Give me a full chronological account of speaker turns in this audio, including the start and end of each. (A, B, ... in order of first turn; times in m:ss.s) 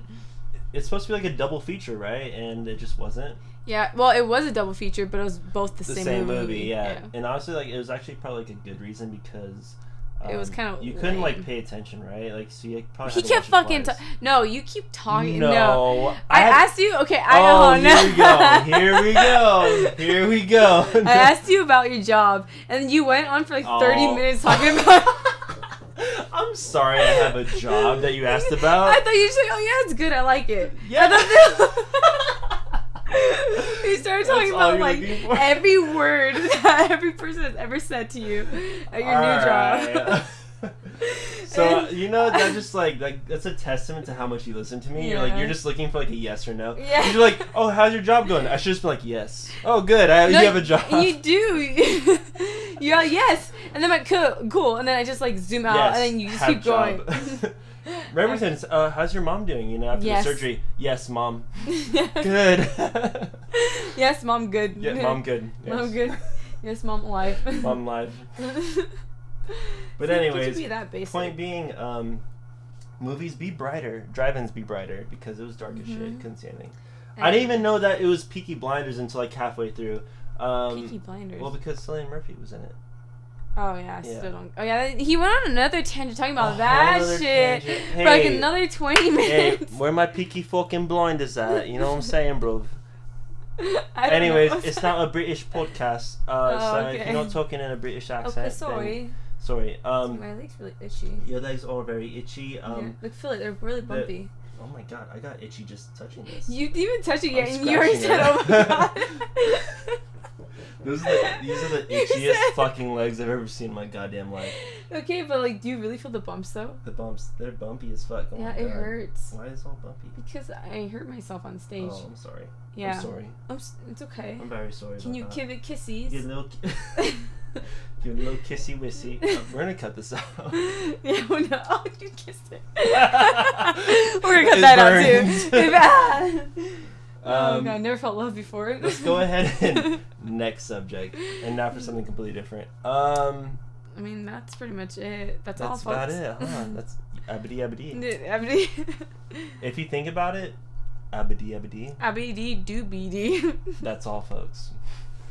0:00.7-0:03.4 A
0:03.6-0:07.1 B
0:05.9-0:14.0 A
0:10.2-0:11.5 B
0:13.0-0:20.0 B
0:15.1-0:16.7 A
0:17.3-0:21.4 A
0:20.9-0:25.5 B
0:23.6-0:24.9 A
0:26.0-0:29.0 A
0:27.0-0:32.4 B
0:30.8-0:31.9 A
0:33.1-0:40.2 B
0:33.7-0:35.8 A
0:38.9-0:40.7 A
0:41.0-0:42.6 B
0:41.5-0:51.2 A
0:44.9-0:45.7 B
0:46.8-0:47.5 B
0:50.2-0:58.6 B
0:55.7-0:57.6 A
0:58.1-1:01.5 A
0:59.9-1:00.5 B
1:01.7-1:02.3 B
1:02.2-1:03.4 A
1:03.5-1:07.8 B
1:04.8-1:06.1 A
1:07.6-1:08.3 A
1:08.4-1:09.0 B
1:10.0-1:12.2 A
1:10.0-1:11.4 B
1:13.0-1:22.8 A
1:15.7-1:16.2 B
1:17.2-1:17.8 B
1:20.7-1:21.6 B
1:23.6-1:29.8 B
1:24.0-1:24.3 A
1:26.4-1:28.6 A
1:29.2-1:32.8 A
1:33.6-1:35.2 B
1:34.0-1:40.2 A
1:36.4-1:37.4 B
1:38.2-1:39.2 B
1:40.0-1:41.2 B
1:41.2-1:43.0 A
1:42.7-1:44.3 B
1:43.8-1:46.6 A
1:46.3-1:50.0 B
1:47.3-1:49.1 A
1:50.8-1:54.6 A
1:51.0-1:52.8 B
1:54.9-1:56.8 B
1:56.8-2:00.2 A
1:58.4-1:59.3 B
2:00.2-2:02.0 B
2:01.8-2:03.4 A
2:02.7-2:06.3 B
2:04.4-2:07.2 A
2:08.0-2:10.6 A
2:10.5-2:20.0 B
2:13.0-2:16.0 A
2:17.2-2:17.8 A
2:18.8-2:23.6 A
2:24.0-2:26.7 B
2:25.6-2:28.0 A
2:27.9-2:29.5 B
2:29.6-2:30.6 A
2:31.1-2:32.0 A
2:32.0-2:33.8 B
2:33.8-2:34.7 A